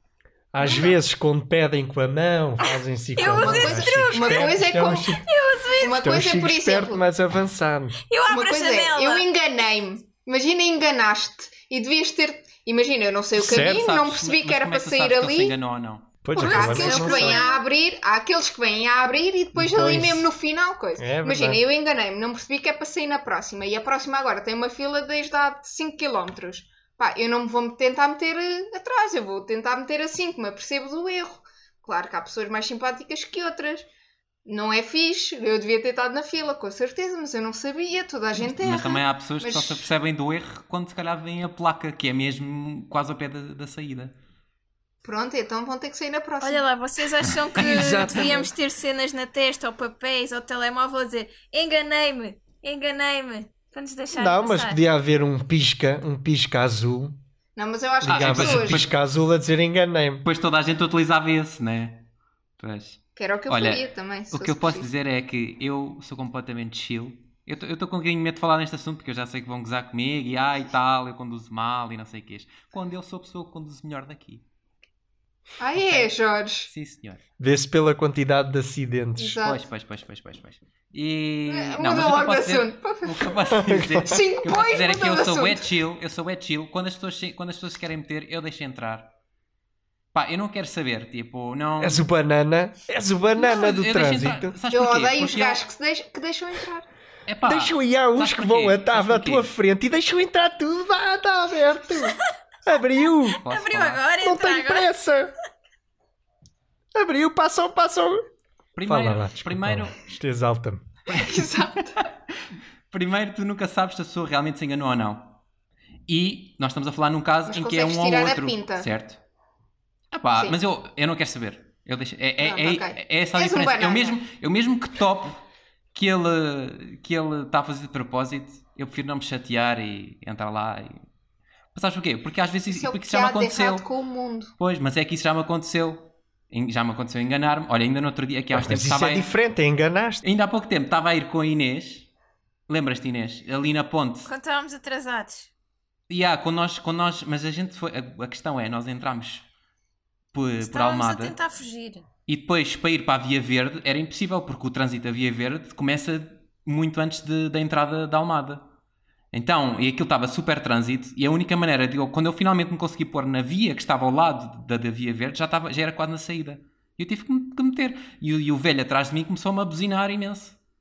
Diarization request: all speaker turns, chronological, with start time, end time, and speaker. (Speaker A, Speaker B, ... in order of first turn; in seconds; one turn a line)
Speaker A: 0.5-5.2
Speaker B: 0.6-0.9
Speaker B: 2.6-6.1
Speaker C: 3.4-5.2
Speaker C: 5.8-7.0
Speaker A: 5.8-8.0
Speaker B: 8.1-9.2
Speaker C: 8.3-15.5
Speaker A: 13.4-13.8
Speaker D: 13.4-16.1
Speaker A: 16.2-17.4
Speaker C: 16.3-33.9
Speaker B: 16.4-17.6
Speaker A: 19.5-20.3
Speaker A: 21.0-21.6
Speaker C: 34.5-39.9
Speaker D: 38.4-44.1
Speaker C: 45.0-46.6
Speaker B: 46.4-54.8
Speaker A: 47.6-48.5
Speaker A: 54.1-57.2
Speaker C: 57.6-58.9
Speaker A: 58.0-60.2
Speaker D: 58.0-58.9
Speaker D: 60.2-62.1
Speaker D: 62.6-74.4
Speaker C: 63.2-64.9
Speaker C: 75.6-76.7
Speaker D: 75.8-76.1
Speaker D: 76.7-77.2
Speaker A: 77.4-79.4
Speaker C: 79.2-79.7
Speaker D: 79.4-89.1
Speaker C: 81.5-83.5
Speaker A: 83.5-84.2
Speaker C: 84.0-85.7
Speaker D: 90.1-92.0
Speaker A: 91.8-94.5
Speaker D: 93.4-95.6
Speaker C: 94.7-96.8
Speaker D: 97.3-99.5
Speaker A: 97.4-103.4
Speaker D: 103.4-104.0
Speaker B: 103.5-104.9
Speaker A: 104.2-105.3
Speaker A: 106.9-108.2
Speaker D: 108.8-110.0
Speaker A: 108.8-110.9
Speaker D: 111.1-111.5
Speaker C: 111.1-112.1
Speaker D: 112.9-115.4
Speaker D: 116.1-119.2
Speaker C: 117.5-118.9
Speaker D: 120.1-125.4
Speaker C: 122.4-124.2
Speaker D: 125.9-131.0
Speaker D: 131.7-133.8
Speaker C: 132.7-134.5
Speaker D: 134.6-139.3
Speaker A: 138.5-140.2
Speaker D: 140.2-142.1
Speaker D: 142.7-144.3
Speaker B: 144.2-145.5
Speaker D: 146.1-149.4
Speaker D: 150.3-151.3
Speaker B: 150.6-152.1
Speaker D: 152.3-158.6
Speaker D: 159.3-170.6